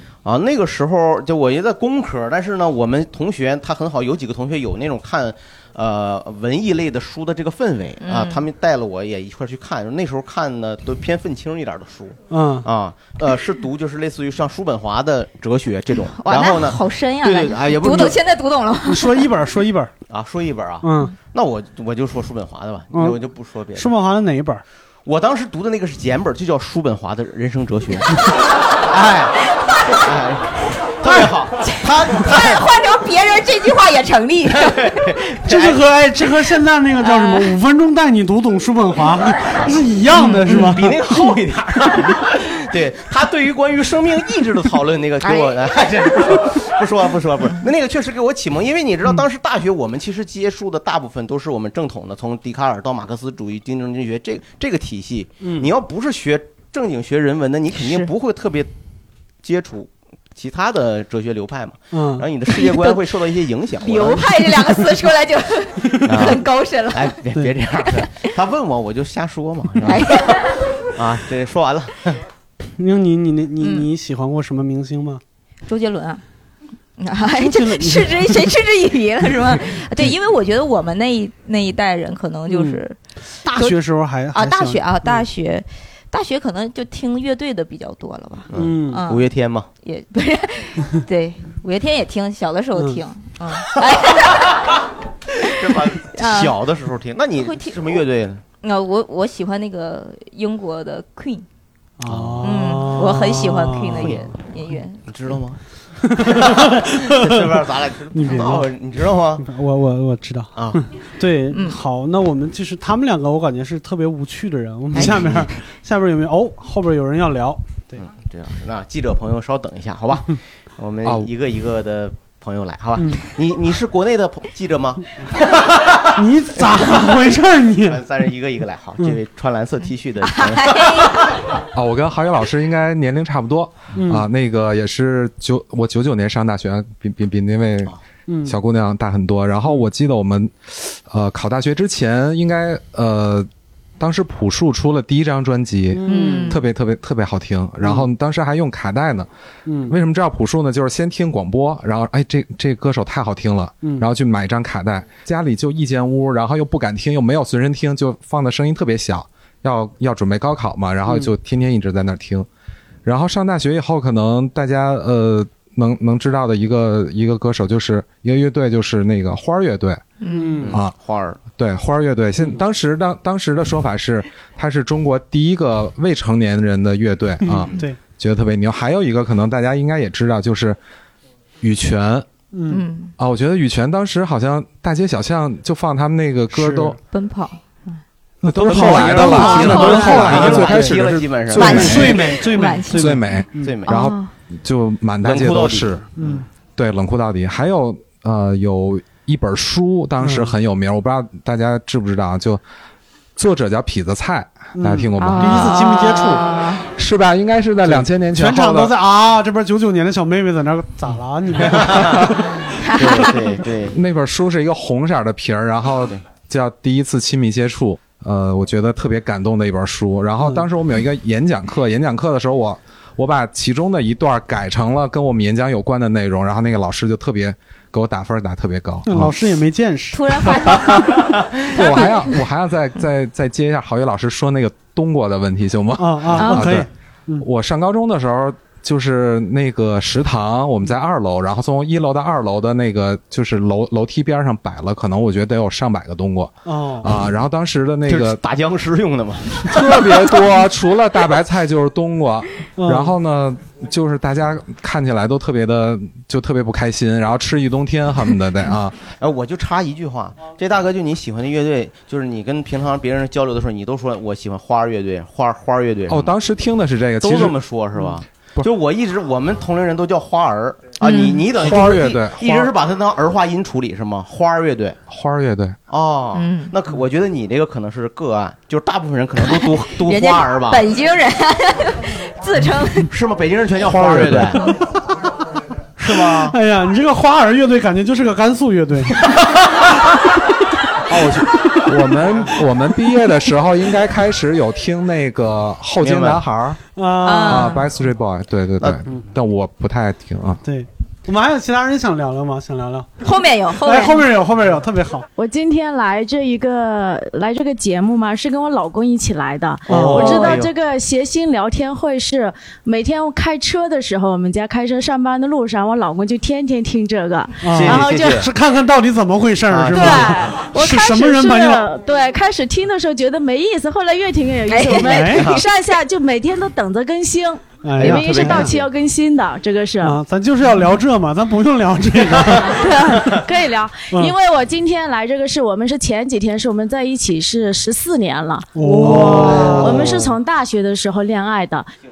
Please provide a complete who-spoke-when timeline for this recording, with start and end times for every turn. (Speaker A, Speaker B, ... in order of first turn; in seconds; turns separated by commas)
Speaker A: 0.2-18.2, Speaker B: 8.0-8.4, Speaker C: 12.3-12.7, Speaker B: 16.2-19.3, Speaker C: 18.9-19.9, Speaker A: 20.1-23.9, Speaker C: 20.8-21.1, Speaker C: 22.9-23.2, Speaker C: 23.7-24.6, Speaker A: 25.1-28.2, Speaker A: 28.8-32.6, Speaker B: 29.6-29.9, Speaker B: 31.6-35.0, Speaker A: 34.5-35.8, Speaker C: 35.5-41.0, Speaker B: 37.0-37.5, Speaker B: 40.1-40.7, Speaker A: 40.5-58.7, Speaker B: 45.2-45.5, Speaker C: 55.4-55.7, Speaker A: 59.4-64.3, Speaker C: 61.9-62.2, Speaker B: 62.5-63.0, Speaker B: 63.8-67.1, Speaker A: 66.0-72.2, Speaker B: 69.8-70.6, Speaker C: 72.8-75.2, Speaker B: 73.6-73.9, Speaker B: 75.7-76.2, Speaker B: 77.0-83.8, Speaker C: 77.4-78.4, Speaker C: 82.5-82.8, Speaker C: 83.4-85.2, Speaker B: 84.3-89.2, Speaker A: 88.5-89.7, Speaker C: 88.5-89.0, Speaker B: 89.8-94.6, Speaker C: 92.8-93.0, Speaker B: 95.4-96.5, Speaker A: 95.5-98.4, Speaker B: 97.4-97.8, Speaker B: 98.6-101.4, Speaker C: 102.0-104.2, Speaker A: 102.0-102.5, Speaker B: 102.4-105.0, Speaker A: 105.0-105.6, Speaker C: 106.1-107.6, Speaker A: 106.2-109.4, Speaker C: 108.1-108.7, Speaker C: 109.4-118.0, Speaker A: 110.5-110.8, Speaker B: 111.5-111.8, Speaker B: 114.9-115.3, Speaker A: 114.9-115.4, Speaker A: 118.0-125.1, Speaker C: 126.1-128.0, Speaker A: 126.5-131.2, Speaker B: 130.2-131.3, Speaker D: 131.7-137.9, Speaker C: 133.9-134.2, Speaker C: 138.3-138.5, Speaker D: 138.4-143.5, Speaker D: 144.0-149.3, Speaker C: 145.9-146.6, Speaker B: 146.0-146.6, Speaker C: 149.7-149.9, Speaker D: 149.9-162.5, Speaker D: 163.0-170.2, Speaker B: 170.2-170.7, Speaker C: 170.3-170.7, Speaker A: 170.6-171.4, Speaker D: 171.5-180.8, Speaker C: 177.4-178.0, Speaker D: 181.6-182.2, Speaker C: 182.5-182.8, Speaker B: 182.7-183.1, Speaker D: 183.2-187.0, Speaker C: 186.5-186.9, Speaker B: 187.1-188.0, Speaker D: 188.4-192.1, Speaker C: 188.5-191.0, Speaker A: 188.5-192.4, Speaker B: 189.4-190.2, Speaker B: 191.5-194.3, Speaker C: 191.6-193.8, Speaker D: 192.9-196.0, Speaker A: 193.6-194.1, Speaker A: 195.2-196.2, Speaker C: 196.2-196.4, Speaker D: 196.8-202.6, Speaker C: 200.2-200.5, Speaker D: 203.4-205.8, Speaker C: 204.7-206.5, Speaker B: 205.2-206.8, Speaker D: 206.9-208.9, Speaker C: 207.8-212.6, Speaker A: 211.6-212.3, Speaker B: 212.8-213.4, Speaker A: 212.9-214.0, Speaker D: 213.9-229.3, Speaker C: 229.1-230.8, Speaker B: 230.1-232.3, Speaker D: 231.7-236.9, Speaker C: 236.0-237.4, Speaker B: 236.3-236.8, Speaker D: 237.4-248.4, Speaker C: 246.7-247.1, Speaker A: 248.1-250.3, Speaker D: 249.7-259.0, Speaker C: 252.8-253.1, Speaker A: 259.2-266.4, Speaker D: 266.1-267.6, Speaker A: 267.2-275.0, Speaker B: 271.0-271.4, Speaker D: 271.5-272.7, Speaker D: 275.1-275.8, Speaker A: 275.9-280.8, Speaker B: 276.3-276.7, Speaker B: 279.4-283.1, Speaker A: 283.1-284.7, Speaker D: 284.0-284.5, Speaker A: 286.0-286.6, Speaker C: 286.1-289.2, Speaker D: 291.1-296.8, Speaker A: 296.0-296.4, Speaker C: 296.9-297.7, Speaker B: 297.2-297.9, Speaker D: 297.4-300.6, Speaker C: 300.6-303.1, Speaker B: 303.2-304.2, Speaker C: 303.8-305.3, Speaker E: 305.4-318.4, Speaker A: 309.9-310.7, Speaker C: 309.9-310.6, Speaker B: 310.2-310.5, Speaker C: 317.6-321.9, Speaker A: 317.6-318.5, Speaker A: 319.7-320.6, Speaker E: 319.9-330.2, Speaker B: 324.7-325.3, Speaker C: 325.0-325.6, Speaker A: 325.2-325.6, Speaker C: 327.8-328.8, Speaker A: 328.0-328.9, Speaker C: 330.0-333.4, Speaker B: 332.8-333.2, Speaker E: 333.4-341.9, Speaker C: 338.7-340.4, Speaker A: 339.1-339.9